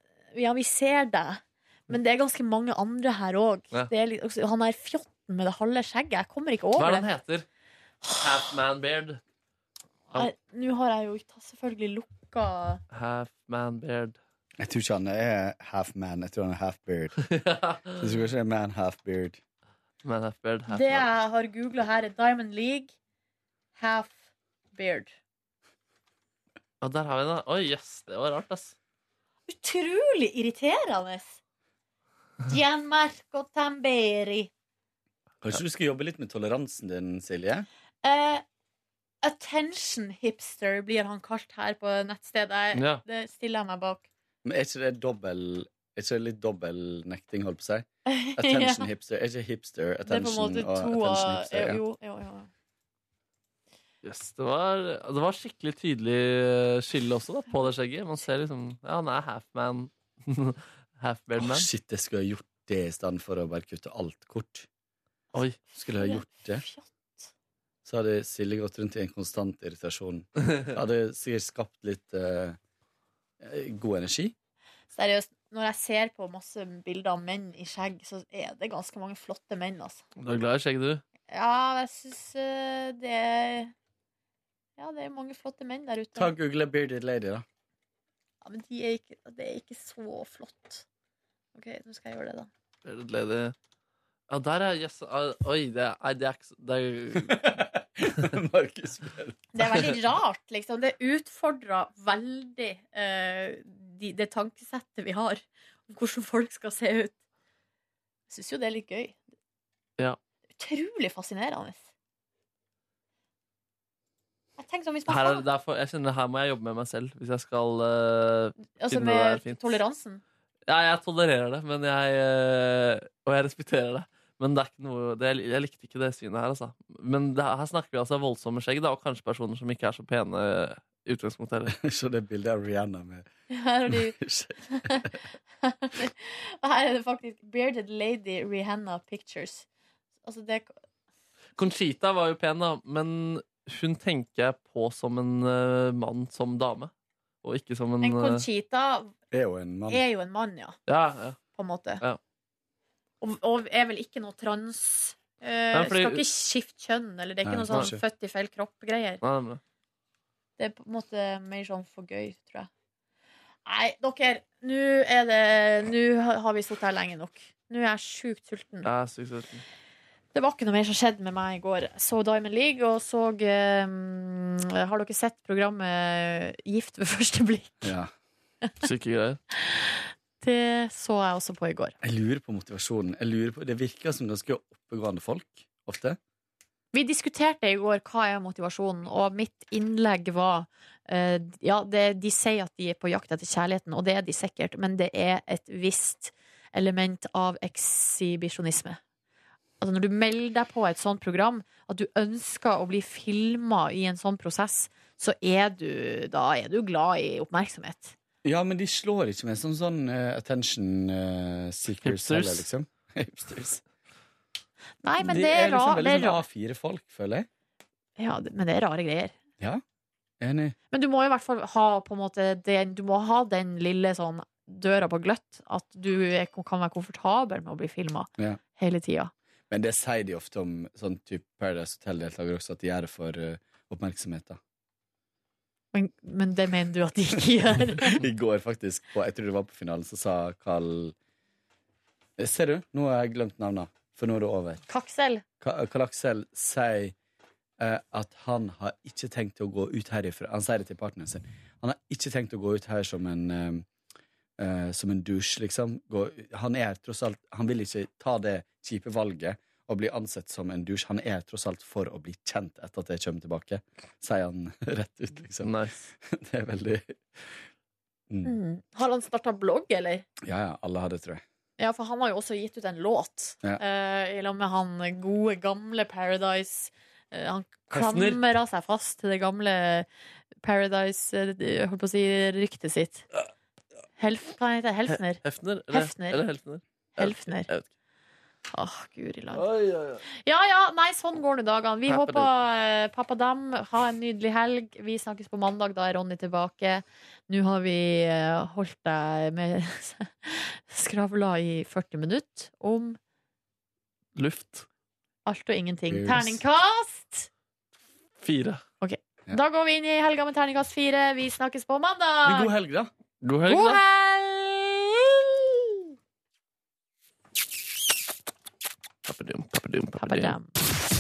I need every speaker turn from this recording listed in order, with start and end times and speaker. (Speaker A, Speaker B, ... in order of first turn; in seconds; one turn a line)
Speaker A: 0.3-7.1
Speaker B: 6.8-7.5
Speaker B: 8.2-9.2
Speaker A: 10.1-12.8
Speaker B: 12.9-14.2
Speaker C: 14.6-17.2
Speaker B: 17.2-18.0
Speaker C: 17.9-19.4
Speaker B: 20.0-21.1
Speaker A: 20.7-22.9
Speaker A: 23.8-24.2
Speaker A: 24.7-25.1
Speaker B: 26.8-28.7
Speaker A: 29.5-31.4
Speaker A: 32.5-34.5
Speaker C: 35.4-37.7
Speaker A: 38.0-38.4
Speaker A: 39.2-44.0
Speaker B: 42.7-43.0
Speaker C: 44.4-51.8
Speaker A: 48.0-48.9
Speaker A: 50.0-52.5
Speaker B: 54.0-61.7
Speaker C: 61.4-64.7
Speaker A: 65.3-67.3
Speaker C: 65.8-66.6
Speaker C: 67.8-72.6
Speaker C: 73.4-74.3
Speaker A: 74.9-80.0
Speaker B: 80.2-81.0
Speaker A: 81.3-83.7
Speaker A: 84.8-86.3
Speaker C: 86.2-87.4
Speaker A: 88.4-90.8
Speaker A: 91.5-92.5
Speaker B: 92.8-93.5
Speaker B: 94.3-97.5
Speaker C: 97.2-99.9
Speaker A: 99.5-107.1
Speaker A: 108.3-109.2
Speaker A: 110.6-111.8
Speaker A: 114.6-115.4
Speaker B: 115.1-119.8
Speaker A: 118.7-120.2
Speaker B: 120.7-131.7
Speaker C: 131.7-133.3
Speaker A: 133.5-134.2
Speaker C: 133.9-135.2
Speaker A: 134.7-135.1
Speaker A: 135.6-139.6
Speaker A: 140.2-140.7
Speaker B: 141.6-146.9
Speaker B: 147.4-148.4
Speaker A: 148.0-149.1
Speaker C: 149.3-150.0
Speaker A: 149.9-150.8
Speaker B: 150.9-151.4
Speaker A: 151.6-152.0
Speaker A: 153.2-159.2
Speaker B: 155.7-156.2
Speaker C: 157.4-158.0
Speaker B: 159.2-159.6
Speaker A: 160.6-162.7
Speaker A: 163.7-168.9
Speaker B: 168.8-169.6
Speaker A: 170.3-177.9
Speaker C: 177.8-178.1
Speaker B: 178.8-179.4
Speaker A: 179.5-181.9
Speaker C: 182.0-186.2
Speaker A: 186.9-199.0
Speaker A: 199.8-208.1
Speaker C: 208.4-213.8
Speaker B: 212.0-212.7
Speaker A: 215.0-216.4
Speaker C: 215.2-217.5
Speaker A: 218.2-219.3
Speaker C: 220.4-220.8
Speaker A: 220.9-229.3
Speaker C: 229.7-234.6
Speaker A: 235.9-238.2
Speaker C: 238.1-241.1
Speaker C: 242.4-244.8
Speaker A: 244.9-245.4
Speaker C: 245.6-247.1
Speaker C: 247.8-253.8
Speaker C: 254.6-267.6
Speaker B: 265.6-266.1
Speaker A: 268.4-270.2
Speaker C: 270.4-271.4
Speaker A: 271.8-280.1
Speaker B: 277.9-278.4
Speaker A: 280.6-283.2
Speaker A: 284.2-286.4
Speaker B: 285.1-287.9
Speaker A: 287.2-287.7
Speaker A: 288.7-289.6
Speaker B: 289.5-290.2
Speaker A: 290.4-303.2
Speaker B: 292.1-292.5
Speaker B: 304.4-304.9
Speaker A: 305.4-307.5
Speaker C: 306.1-306.6
Speaker B: 308.4-308.8
Speaker A: 309.0-312.7
Speaker C: 312.4-313.1
Speaker B: 313.4-314.0
Speaker A: 313.6-316.0
Speaker B: 319.2-320.6
Speaker A: 320.2-320.7